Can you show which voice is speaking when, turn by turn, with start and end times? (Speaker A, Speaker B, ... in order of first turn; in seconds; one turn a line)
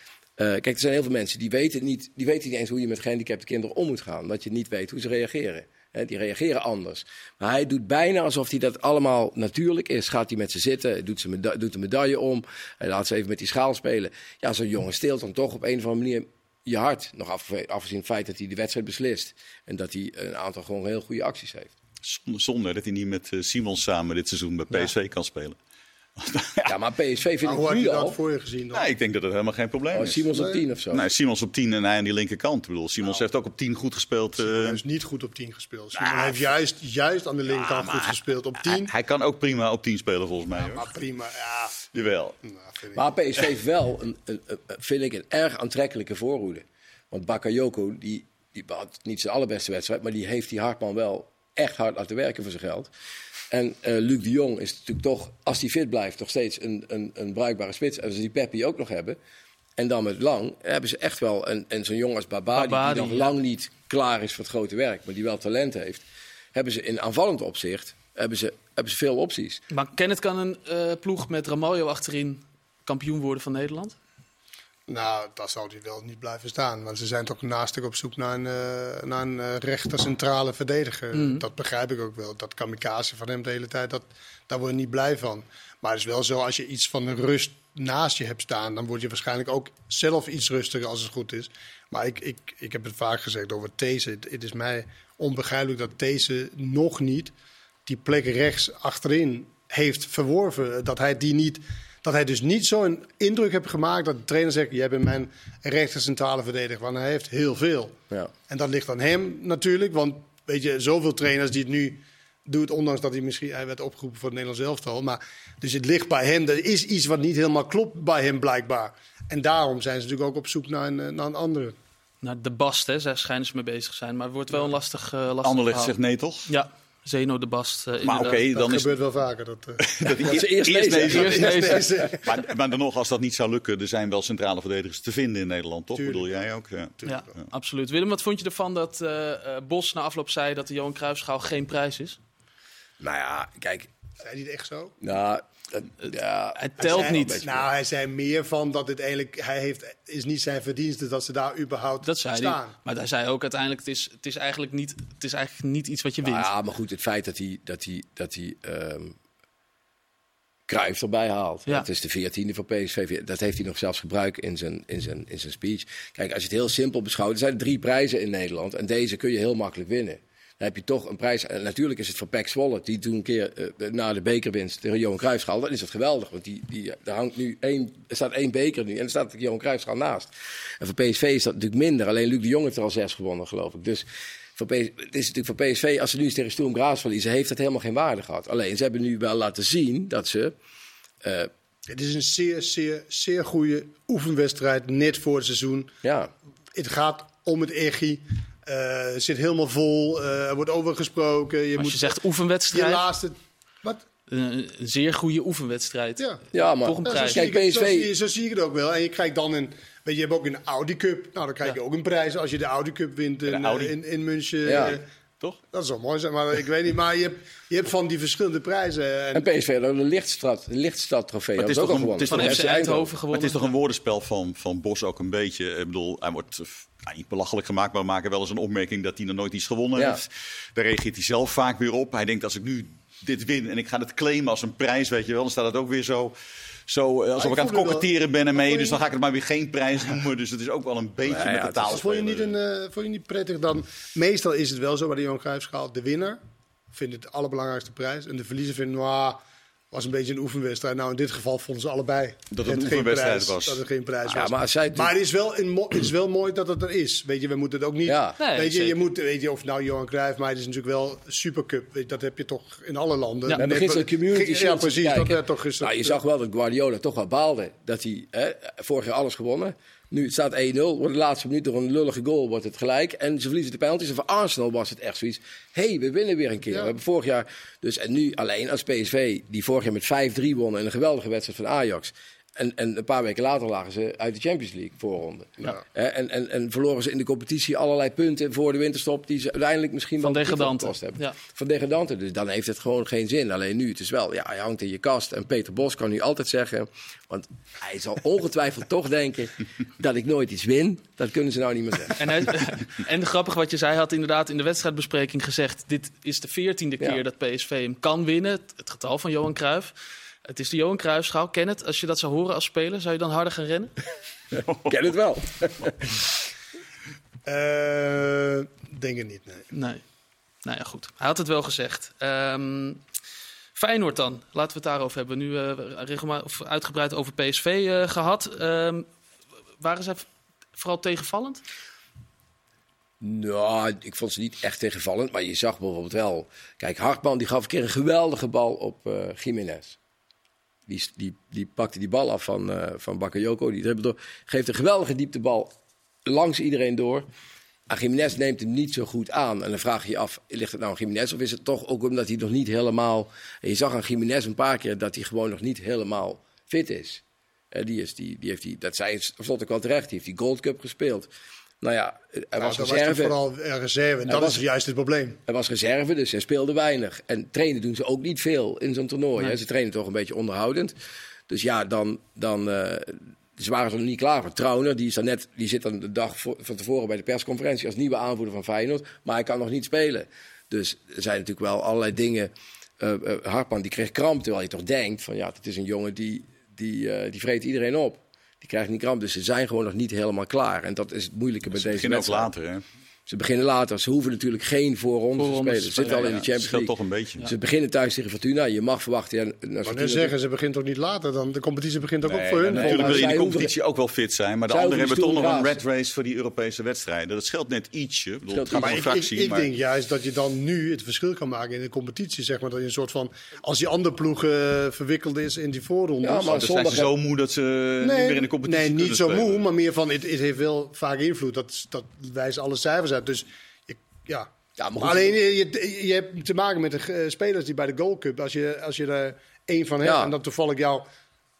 Speaker A: 0.4-21.7
Speaker B: 22.0-25.6
Speaker B: 26.2-26.8
Speaker A: 26.7-28.2
Speaker C: 27.4-28.9
Speaker B: 28.7-30.3
Speaker A: 29.9-31.0
Speaker C: 30.3-30.6
Speaker B: 30.9-34.8
Speaker C: 34.4-38.9
Speaker B: 36.0-36.5
Speaker B: 37.5-40.9
Speaker C: 40.6-41.8
Speaker B: 41.9-42.4
Speaker C: 42.5-43.0
Speaker A: 42.9-52.9
Speaker A: 53.5-59.2
Speaker A: 59.8-66.0
Speaker D: 62.5-63.3
Speaker A: 66.5-69.6
Speaker D: 69.7-74.0
Speaker C: 74.9-97.3
Speaker D: 81.1-81.4
Speaker C: 97.9-108.0
Speaker C: 108.5-121.8
Speaker D: 122.2-126.0
Speaker B: 125.4-126.5
Speaker D: 126.5-128.4
Speaker B: 128.0-128.9
Speaker C: 128.5-129.9
Speaker B: 129.8-137.5
Speaker A: 130.2-132.0
Speaker C: 131.0-132.3
Speaker D: 131.1-131.8
Speaker C: 135.9-136.4
Speaker C: 137.0-137.3
Speaker D: 137.1-142.2
Speaker A: 143.0-143.9
Speaker C: 144.2-145.0
Speaker A: 145.0-147.6
Speaker D: 146.0-147.5
Speaker C: 146.8-152.8
Speaker D: 152.0-156.5
Speaker A: 156.2-159.2
Speaker A: 160.7-184.1
Speaker A: 184.6-190.5
Speaker A: 191.2-191.5
Speaker C: 191.9-195.9
Speaker A: 196.0-196.3
Speaker C: 196.8-202.2
Speaker D: 201.8-203.1
Speaker C: 202.7-204.0
Speaker D: 204.3-206.2
Speaker A: 206.5-208.1
Speaker D: 206.8-207.5
Speaker C: 207.1-215.1
Speaker B: 213.5-213.9
Speaker A: 214.7-215.0
Speaker B: 214.7-215.6
Speaker C: 215.7-219.5
Speaker A: 219.3-223.1
Speaker B: 221.6-222.7
Speaker D: 222.3-223.8
Speaker B: 223.3-236.4
Speaker A: 230.0-230.2
Speaker B: 236.9-242.5
Speaker C: 237.4-239.0
Speaker A: 241.2-242.0
Speaker C: 241.9-246.4
Speaker C: 246.9-266.2
Speaker B: 252.5-253.8
Speaker A: 254.3-255.1
Speaker A: 258.1-258.4
Speaker D: 258.4-259.0
Speaker A: 263.6-302.2
Speaker D: 290.2-291.4
Speaker D: 302.2-313.9
Speaker B: 314.6-315.0
Speaker A: 314.7-316.3
Speaker C: 317.4-319.7
Speaker D: 319.7-320.0
Speaker D: 320.6-323.0
Speaker D: 323.8-329.1
Speaker D: 329.8-331.6
Speaker A: 333.2-340.0
Speaker A: 340.9-345.7
Speaker A: 346.3-347.3
Speaker A: 347.9-361.3
Speaker A: 361.8-363.4
Speaker C: 362.6-365.4
Speaker A: 364.3-364.6
Speaker A: 365.5-370.9
Speaker A: 371.5-392.5
Speaker B: 391.8-392.8
Speaker A: 393.3-400.3
Speaker D: 395.4-396.4
Speaker B: 396.0-397.4
Speaker C: 399.9-403.3
Speaker B: 402.2-409.7
Speaker A: 402.7-403.7
Speaker A: 404.7-405.8
Speaker A: 408.5-409.0
Speaker C: 408.7-416.7
Speaker A: 416.2-417.1
Speaker B: 416.5-419.6
Speaker C: 418.0-431.1
Speaker A: 424.8-425.3
Speaker A: 430.0-430.4